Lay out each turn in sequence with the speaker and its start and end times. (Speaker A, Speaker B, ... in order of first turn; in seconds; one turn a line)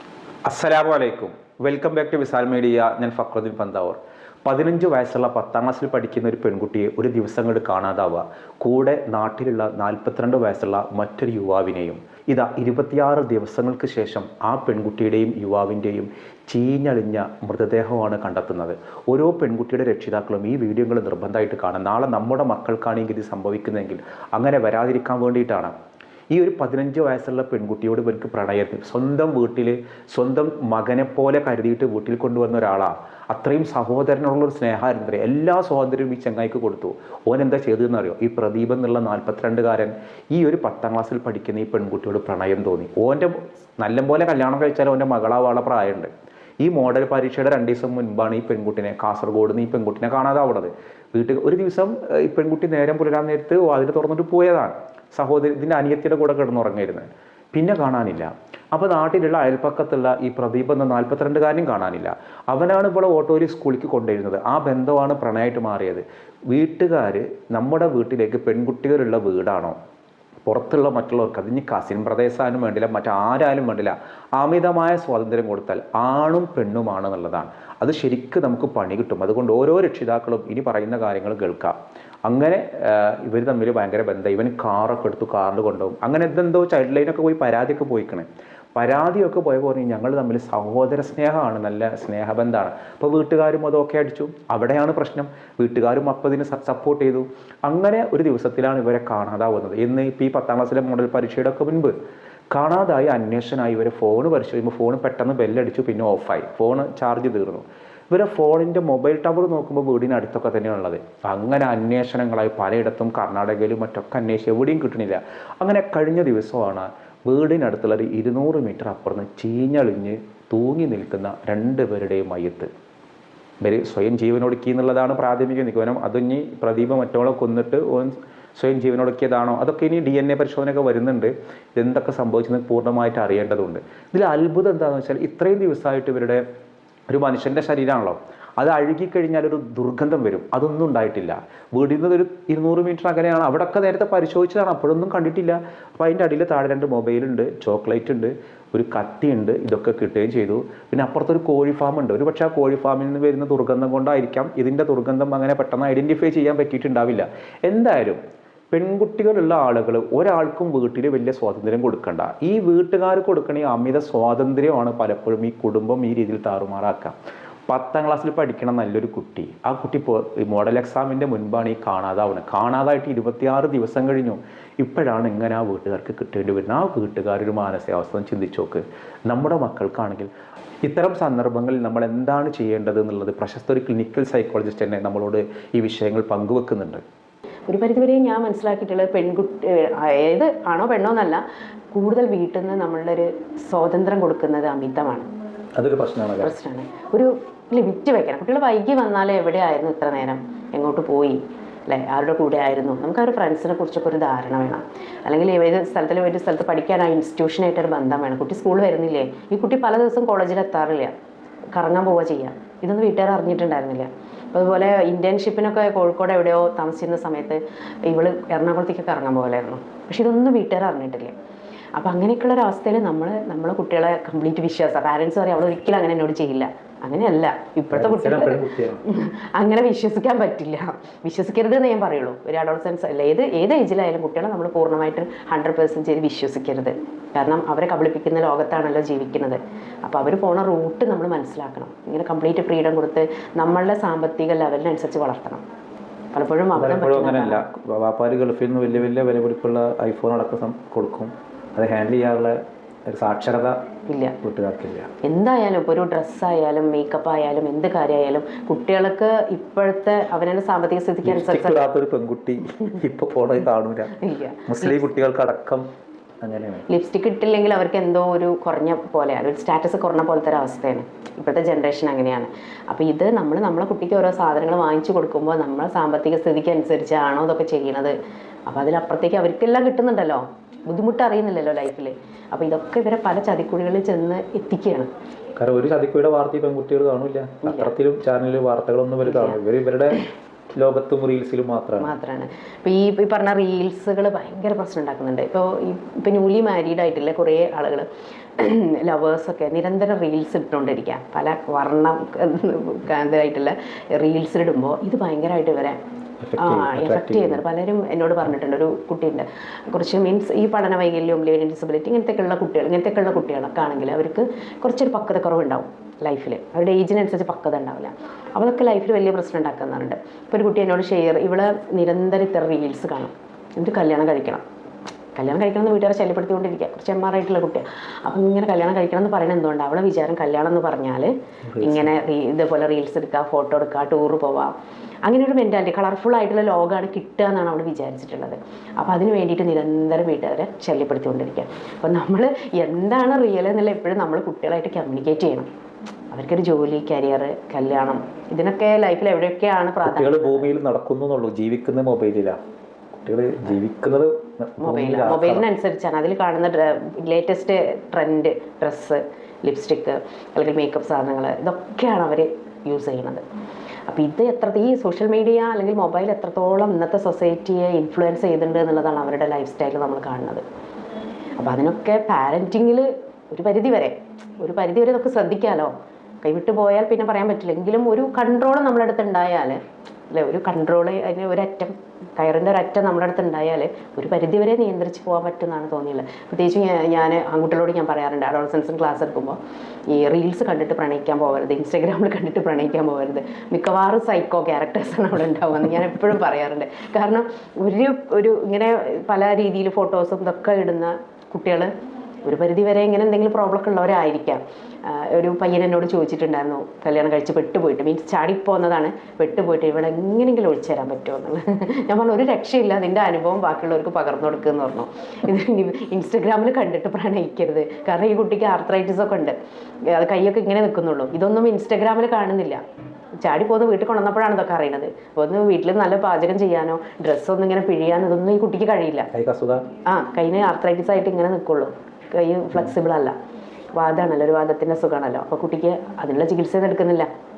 Speaker A: 0.5-25.7
Speaker A: 26.3-69.8
Speaker A: 70.5-81.7
Speaker A: 82.3-101.9
Speaker A: 102.5-122.7
Speaker A: 123.6-136.4
Speaker A: 137.1-158.2
Speaker A: 158.7-167.2
Speaker A: 167.7-180.3
Speaker A: 180.8-187.0
Speaker B: 187.7-195.3
Speaker A: 195.8-196.5
Speaker B: 196.4-211.2
Speaker B: 211.8-221.3
Speaker B: 222.0-245.6
Speaker A: 227.9-229.0
Speaker B: 246.3-247.6
Speaker A: 246.8-253.8
Speaker B: 254.1-254.4
Speaker A: 254.4-255.1
Speaker B: 255.2-261.9
Speaker A: 261.2-265.9
Speaker B: 264.2-265.0
Speaker A: 266.4-266.9
Speaker B: 266.9-278.1
Speaker B: 278.7-285.1
Speaker A: 285.6-290.2
Speaker B: 287.6-287.9
Speaker B: 289.2-289.6
Speaker A: 290.8-292.1
Speaker B: 292.0-298.1
Speaker B: 298.6-306.0
Speaker A: 306.4-307.6
Speaker B: 306.6-324.6
Speaker B: 325.4-334.7
Speaker A: 331.7-332.1
Speaker B: 335.3-345.7
Speaker B: 346.3-350.7
Speaker A: 350.0-352.6
Speaker A: 353.2-355.7
Speaker B: 354.8-363.4
Speaker B: 364.1-370.6
Speaker B: 371.6-389.6
Speaker B: 390.1-401.9
Speaker B: 402.4-422.8
Speaker B: 423.4-429.3
Speaker A: 429.3-429.9
Speaker B: 430.1-433.4
Speaker B: 433.9-437.3